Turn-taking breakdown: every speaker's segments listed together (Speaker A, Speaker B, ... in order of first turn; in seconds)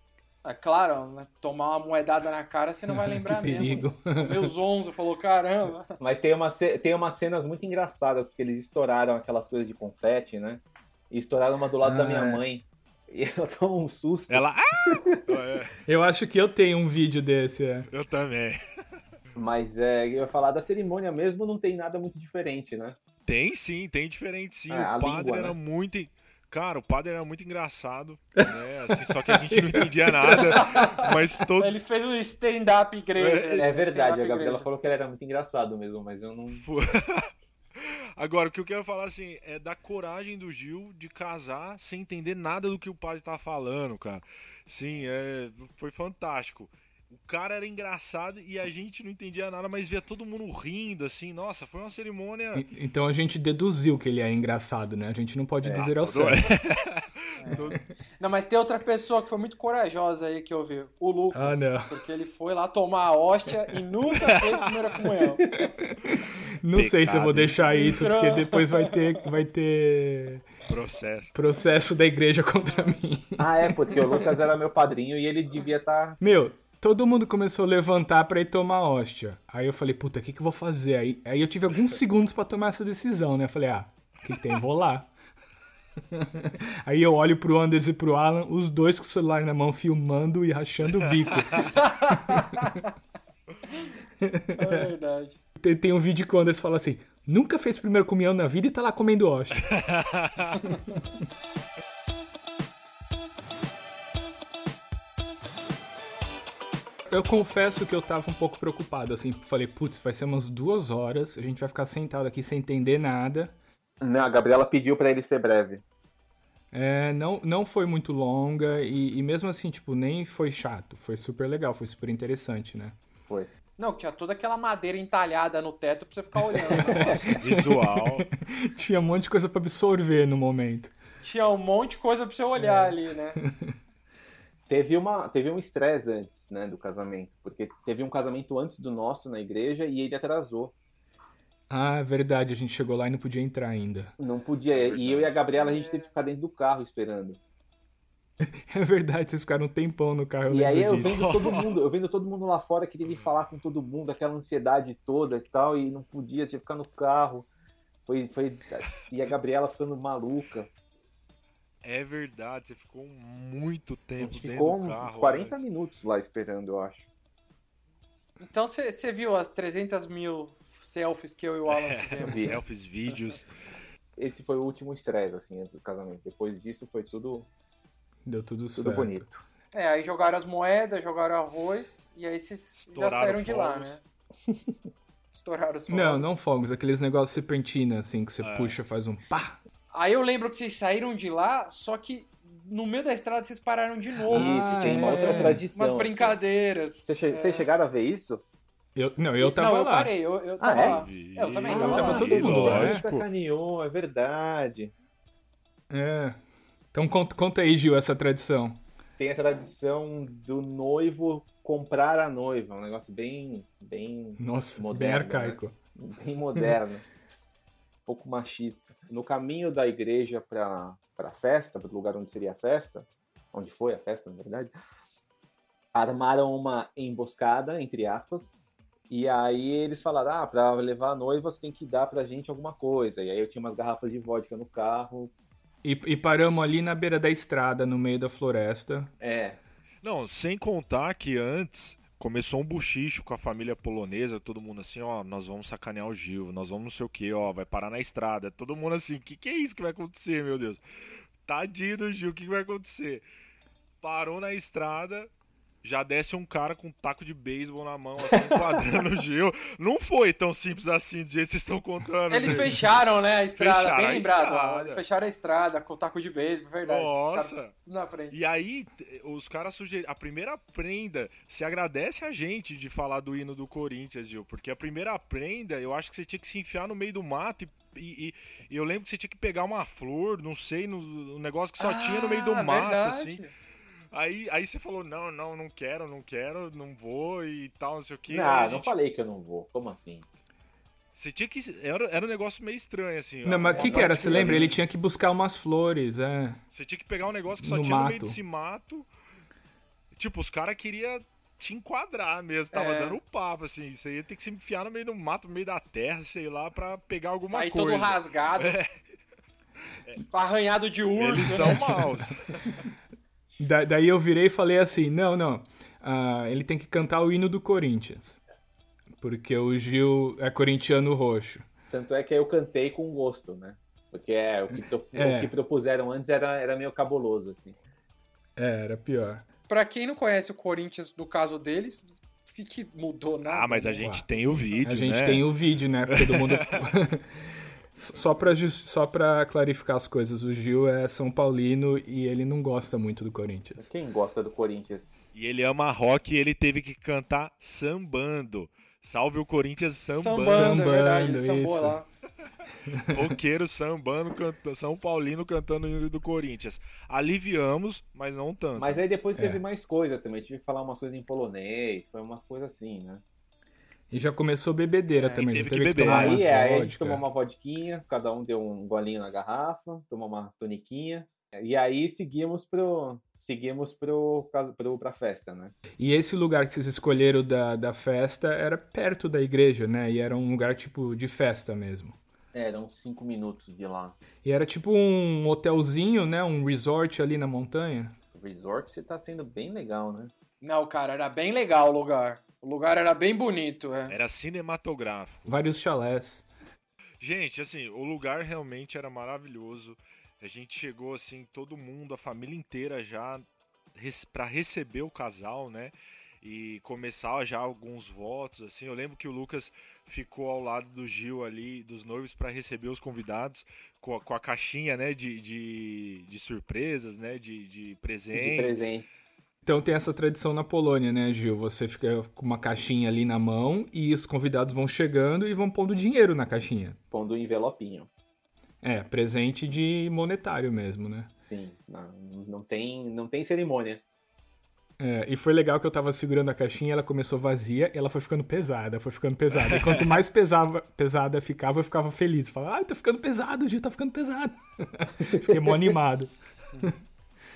Speaker A: 0.4-6.0, 30.5-31.0, 31.6-34.7, 57.4-65.7, 67.6-69.0, 91.6-92.8, 94.6-95.4, 123.8-127.2, 131.2-133.4, 145.6-146.0, 168.4-172.6, 179.7-184.0, 185.3-186.4, 189.9-197.7, 199.4-202.8, 258.4-258.8, 262.3-268.4, 281.8-283.5, 293.9-294.4, 302.7-303.2, 307.4-308.7, 310.3-312.0, 329.7-334.8, 350.1-352.1, 365.2-365.4, 390.6-394.1
Speaker B: 2.9-4.5, 11.8-12.4, 15.8-17.9, 28.4-30.8, 52.5-56.4, 61.3-61.9, 65.5-70.5, 71.3-74.2, 76.2-85.1, 86.1-92.6, 94.2-94.9, 95.6-99.7, 107.1-113.5, 116.7-123.0, 126.7-130.9, 132.6-133.7, 141.7-144.1, 148.4-151.2, 178.2-179.2, 185.9-189.6, 194.3-195.6, 198.9-200.1, 201.8-203.0, 205.9-206.4, 206.9-208.8, 214.4-215.7, 235.8-239.1, 293.4-296.6, 297.6-298.4, 311.7-312.3, 313.6-318.4, 319.2-321.6, 325.1-325.5, 328.6-329.4, 334.8-343.9, 350.4-352.0, 352.9-353.3, 359.4-359.6, 364.1-367.2, 376.0-382.1, 384.4-388.1, 395.5-396.5, 419.6-427.0, 428.8-431.3, 435.0-446.9
Speaker C: 6.0-15.3, 19.3-23.0, 24.7-25.6, 33.5-36.6, 55.6-55.9, 73.4-76.2, 114.0-115.8, 126.8-127.2, 134.7-140.7, 144.2-147.4, 150.5-157.5, 158.1-160.7, 164.2-167.1, 172.2-172.6, 174.2-177.5, 178.8-179.4, 194.3-196.4, 197.0-198.4, 200.6-201.1, 201.6-204.9, 209.2-217.0, 218.1-224.7, 225.9-228.6, 229.1-235.3, 239.2-239.6, 288.3-290.3, 293.7-294.8, 321.9-327.8, 343.8-345.1, 358.8-363.2, 366.0-375.8, 382.5-384.2, 388.3-390.3, 418.3-419.4, 427.1-428.1, 431.4-434.0, 445.2-446.0
Speaker D: 14.3-15.8, 17.9-18.6, 23.2-31.7, 33.1-33.7, 36.5-52.6, 55.8-57.8, 64.2-64.5, 66.7-67.7, 70.7-71.3, 90.9-91.6, 99.6-100.6, 126.8-128.3, 144.7-145.4, 151.0-151.7, 161.8-165.5, 171.7-173.5, 182.8-183.9, 188.4-188.7, 200.7-203.2, 240.0-250.8, 251.4-253.2, 254.0-255.3, 255.8-263.0, 263.6-265.0, 266.8-267.7, 268.3-283.4, 284.1-288.9, 291.1-294.7, 296.7-299.1, 300.1-308.9, 311.2-312.8, 333.4-335.5, 336.1-336.9, 345.3-350.9, 353.1-359.0, 365.3-366.4, 394.1-395.5, 397.2-418.9, 439.6-440.2